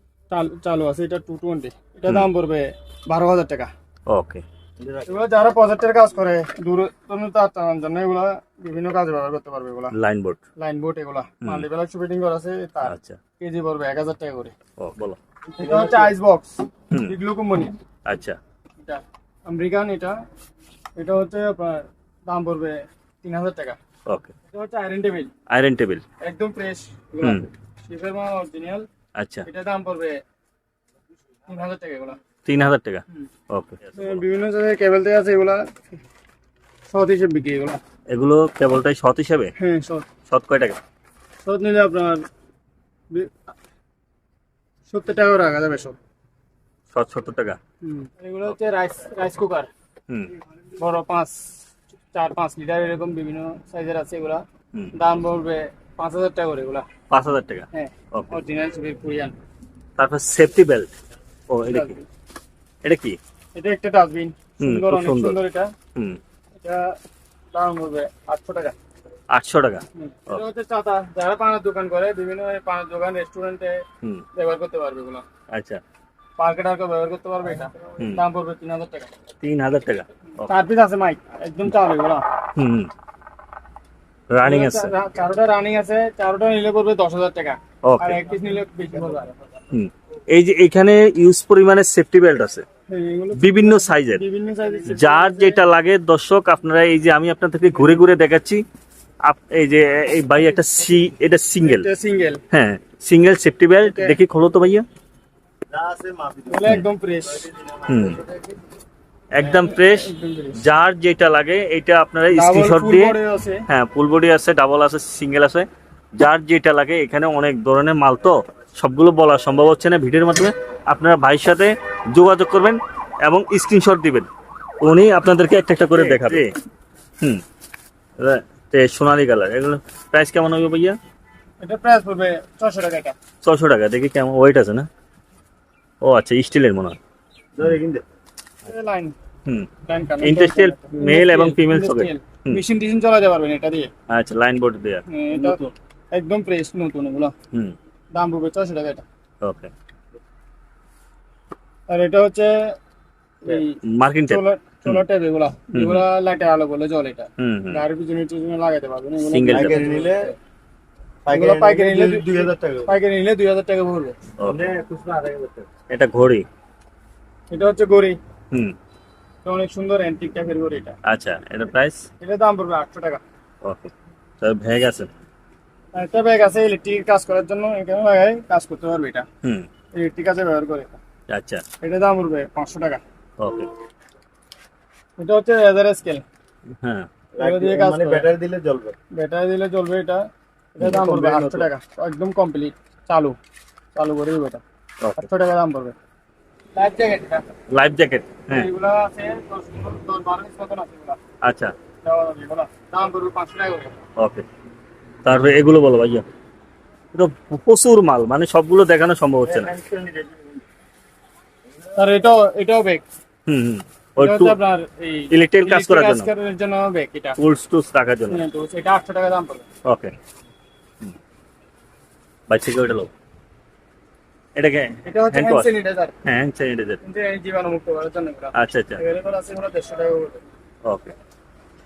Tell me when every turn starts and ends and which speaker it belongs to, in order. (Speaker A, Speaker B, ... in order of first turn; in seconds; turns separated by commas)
Speaker A: 0.3-3.7, Speaker B: 4.1-4.5, Speaker C: 4.8-5.3, Speaker A: 5.1-9.9, Speaker B: 9.9-10.4, Speaker A: 10.6-14.5, Speaker B: 11.4-11.7, Speaker B: 12.8-13.2, Speaker B: 14.8-15.2, Speaker C: 15.5-16.1, Speaker A: 15.6-17.7, Speaker B: 18.1-18.4, Speaker A: 18.8-20.2, Speaker A: 21.0-23.8, Speaker B: 24.1-24.3, Speaker A: 24.5-25.3, Speaker B: 25.5-26.0, Speaker A: 26.2-28.9, Speaker B: 27.2-27.5, Speaker B: 29.2-29.5, Speaker A: 29.4-30.2, Speaker A: 31.5-32.2, Speaker B: 32.5-34.2, Speaker A: 34.0-36.0, Speaker A: 36.9-37.8, Speaker B: 38.1-39.5, Speaker A: 39.6-40.1, Speaker B: 40.3-40.8, Speaker A: 41.4-42.2, Speaker A: 43.1-43.4, Speaker A: 44.9-46.0, Speaker B: 46.9-47.6, Speaker A: 47.8-49.7, Speaker A: 50.8-56.9, Speaker B: 57.1-58.4, Speaker A: 57.7-59.4, Speaker B: 60.0-60.9, Speaker B: 61.5-62.0, Speaker A: 61.7-62.0, Speaker B: 62.8-63.2, Speaker A: 63.5-65.7, Speaker B: 64.6-65.4, Speaker A: 66.6-66.9, Speaker A: 67.5-68.8, Speaker B: 69.3-70.4, Speaker A: 70.0-73.8, Speaker A: 74.3-75.2, Speaker B: 75.5-75.8, Speaker A: 76.4-79.1, Speaker B: 79.4-80.5, Speaker A: 80.4-82.2, Speaker B: 82.6-82.9, Speaker B: 84.3-84.9, Speaker A: 84.4-89.5, Speaker B: 87.8-88.2, Speaker B: 89.7-92.7, Speaker A: 92.9-95.6, Speaker B: 93.3-94.2, Speaker B: 94.9-98.6, Speaker B: 99.2-101.9, Speaker A: 101.6-102.4, Speaker B: 102.5-104.9, Speaker A: 103.8-104.2, Speaker C: 105.7-106.7, Speaker A: 106.5-107.4, Speaker C: 107.2-108.5, Speaker B: 107.9-108.2, Speaker B: 109.3-124.3, Speaker A: 109.4-110.6, Speaker A: 112.3-113.7, Speaker B: 124.8-126.5, Speaker A: 125.9-126.4, Speaker B: 128.2-131.0, Speaker A: 131.6-133.2, Speaker B: 133.4-134.9, Speaker B: 136.0-137.0, Speaker C: 137.6-138.0, Speaker A: 138.7-139.2, Speaker A: 139.9-143.9, Speaker B: 140.2-142.6, Speaker B: 144.1-145.0, Speaker A: 145.1-145.6, Speaker C: 145.3-145.7, Speaker A: 146.1-147.3, Speaker A: 148.1-149.0, Speaker B: 149.4-149.7, Speaker A: 151.9-152.6, Speaker A: 153.4-160.3, Speaker B: 153.9-155.1, Speaker B: 155.7-156.1, Speaker B: 157.4-157.8, Speaker B: 159.2-159.8, Speaker C: 159.5-160.3, Speaker C: 161.3-163.0, Speaker A: 161.3-164.2, Speaker B: 164.4-164.7, Speaker C: 164.4-165.7, Speaker B: 165.9-166.5, Speaker A: 167.5-168.2, Speaker A: 169.4-170.9, Speaker B: 171.1-172.1, Speaker A: 172.2-173.2, Speaker B: 173.6-175.1, Speaker A: 175.9-179.3, Speaker A: 180.0-181.0, Speaker B: 181.3-181.6, Speaker A: 181.8-183.0, Speaker B: 183.4-183.7, Speaker A: 185.2-186.2, Speaker B: 186.8-187.1, Speaker C: 187.3-189.0, Speaker A: 187.4-188.3, Speaker A: 189.1-190.2, Speaker A: 190.8-193.4, Speaker B: 190.8-191.1, Speaker C: 190.9-191.7, Speaker A: 193.9-194.6, Speaker B: 195.0-195.3, Speaker A: 195.2-195.9, Speaker A: 196.8-197.5, Speaker B: 197.7-198.7, Speaker A: 198.5-201.2, Speaker B: 201.4-201.7, Speaker A: 202.0-204.0, Speaker B: 204.2-204.4, Speaker B: 205.2-206.3, Speaker B: 207.1-209.7, Speaker C: 209.4-210.6, Speaker A: 211.9-213.1, Speaker B: 213.5-214.6, Speaker A: 214.2-217.4, Speaker B: 215.3-216.3, Speaker B: 217.4-218.4, Speaker A: 218.3-219.7, Speaker B: 219.8-220.1, Speaker B: 222.5-223.1, Speaker B: 224.6-225.7, Speaker A: 225.1-226.1, Speaker B: 226.2-227.0, Speaker A: 227.0-230.4, Speaker B: 228.6-229.0, Speaker B: 230.8-231.1